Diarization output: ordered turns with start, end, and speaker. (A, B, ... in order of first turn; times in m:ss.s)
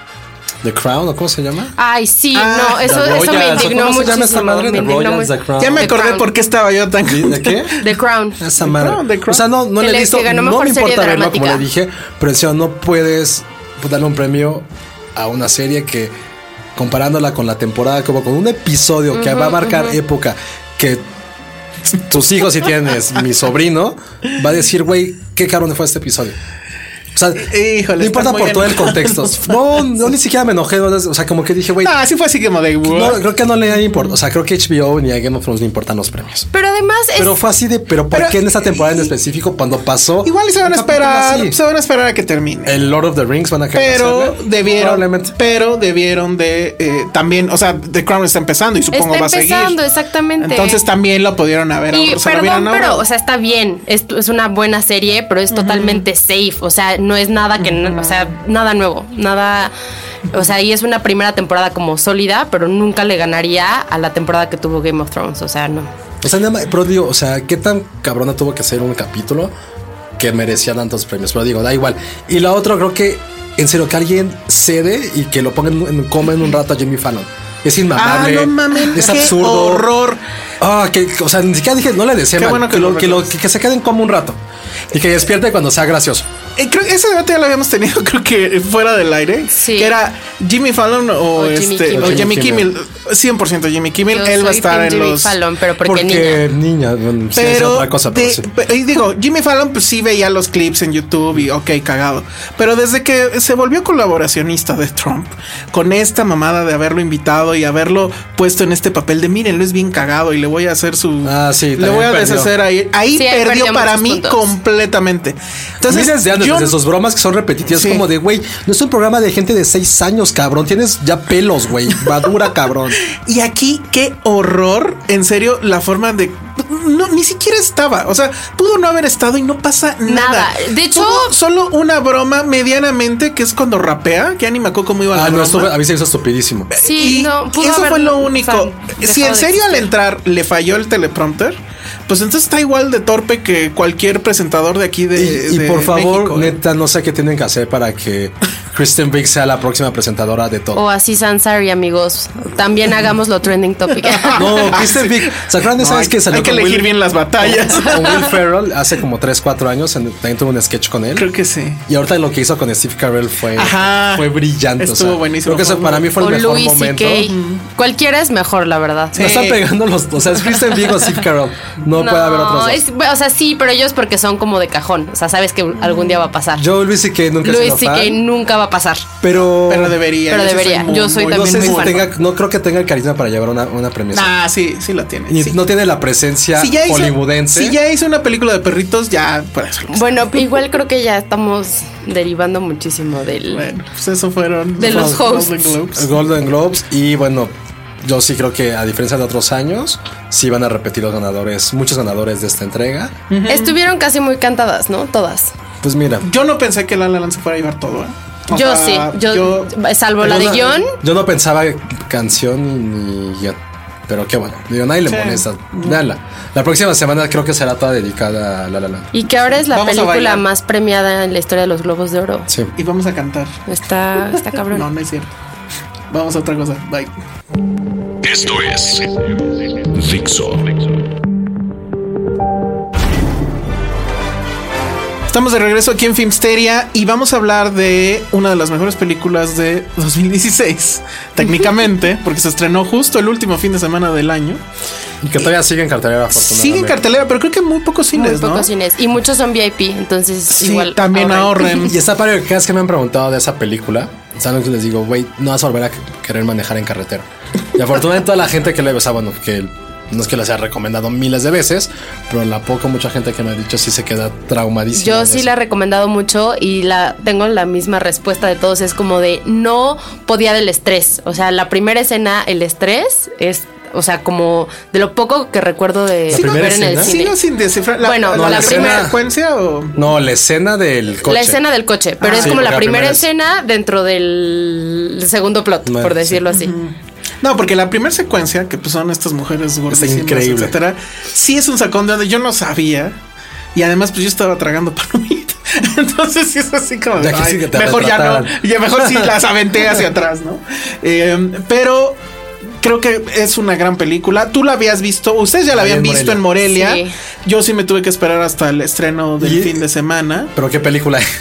0:00.6-0:01.7 A
0:01.8-0:06.3 B
0:02.3-0:04.0 C
0:02.8-0:05.9 A
0:05.6-0:07.8 C
0:07.0-0:07.8 A
0:07.8-0:08.4 B
0:08.4-0:16.1 A
0:08.6-0:09.4 C
0:09.8-0:11.6 B
0:16.8-0:21.0 A
0:19.1-0:20.0 B
0:22.1-0:26.4 A
0:27.1-0:31.9 A
0:27.4-0:29.6 C
0:31.8-0:33.2 C
0:32.8-0:36.5 A
0:36.5-0:37.3 B
0:37.2-0:41.6 A
0:38.1-0:39.1 C
0:40.2-0:42.8 C
0:42.6-0:45.3 A
0:43.7-0:49.8 C
0:48.9-0:50.8 B
0:50.4-0:53.0 C
0:51.9-0:59.7 B
0:55.5-0:56.0 C
0:57.6-0:58.3 C
1:00.3-1:05.9 B
1:06.2-1:09.5 A
1:10.2-1:19.9 A
1:17.9-1:20.2 C
1:20.6-1:24.4 A
1:22.4-1:23.3 C
1:24.9-1:26.3 A
1:26.6-1:35.4 C
1:29.5-1:29.9 B
1:31.4-1:32.3 B
1:31.9-1:32.7 A
1:34.1-1:36.4 B
1:35.8-1:38.5 A
1:37.3-1:56.7 C
1:51.2-1:52.5 A
1:53.1-1:54.5 B
1:55.9-2:03.0 A
1:57.7-1:58.0 C
2:03.1-2:15.7 C
2:10.0-2:11.3 B
2:15.1-2:16.7 A
2:16.8-2:26.6 C
2:16.8-2:19.9 B
2:25.1-2:30.8 A
2:30.7-2:34.8 B
2:34.0-2:35.2 C
2:34.3-2:41.3 A
2:35.7-2:38.4 C
2:41.2-2:41.8 C
2:41.9-2:47.3 A
2:43.5-2:46.1 C
2:46.1-2:49.3 B
2:47.2-2:47.6 C
2:49.1-2:52.8 A
2:49.1-2:49.6 C
2:51.9-2:56.6 B
2:55.8-2:56.2 C
2:56.5-2:58.2 A
2:57.4-2:59.0 B
2:59.2-3:00.0 A
2:59.6-3:02.0 C
3:00.3-3:02.1 B
3:01.2-3:04.4 A
3:04.1-3:05.6 C
3:05.3-3:07.8 A
3:06.6-3:10.2 C
3:09.9-3:13.7 B
3:13.5-3:16.1 C
3:14.8-3:15.5 B
3:14.8-3:15.4 A
3:15.9-3:23.2 A
3:23.3-3:23.8 C
3:23.5-3:25.5 B
3:25.8-3:26.3 A
3:26.2-3:29.7 C
3:28.5-3:30.9 B
3:30.2-3:39.1 A
3:35.0-3:36.0 C
3:39.1-3:42.5 B
3:39.7-3:40.4 C
3:42.8-3:43.6 C
3:43.7-3:44.9 B
3:44.7-3:45.3 C
3:46.1-3:47.1 C
3:48.2-3:50.8 D
3:55.3-4:04.6 C
4:05.2-4:07.0 A
4:06.3-4:08.7 C
4:08.1-4:11.9 B
4:10.5-4:12.0 C
4:11.8-4:25.5 A
4:24.9-4:37.4 B
4:36.3-4:37.1 A
4:36.3-4:40.0 C
4:38.0-4:39.1 B
4:38.3-4:39.2 A
4:39.9-4:41.6 A
4:41.2-4:46.7 B
4:42.2-4:42.7 C
4:42.3-4:43.3 A
4:45.8-4:46.4 A
4:46.5-4:53.2 C
4:49.9-4:50.8 A
4:53.7-5:02.2 C
4:57.2-4:59.3 A
5:02.8-5:10.5 C
5:05.7-5:06.4 A
5:06.6-5:07.1 B
5:09.4-5:09.8 A
5:10.5-5:11.2 A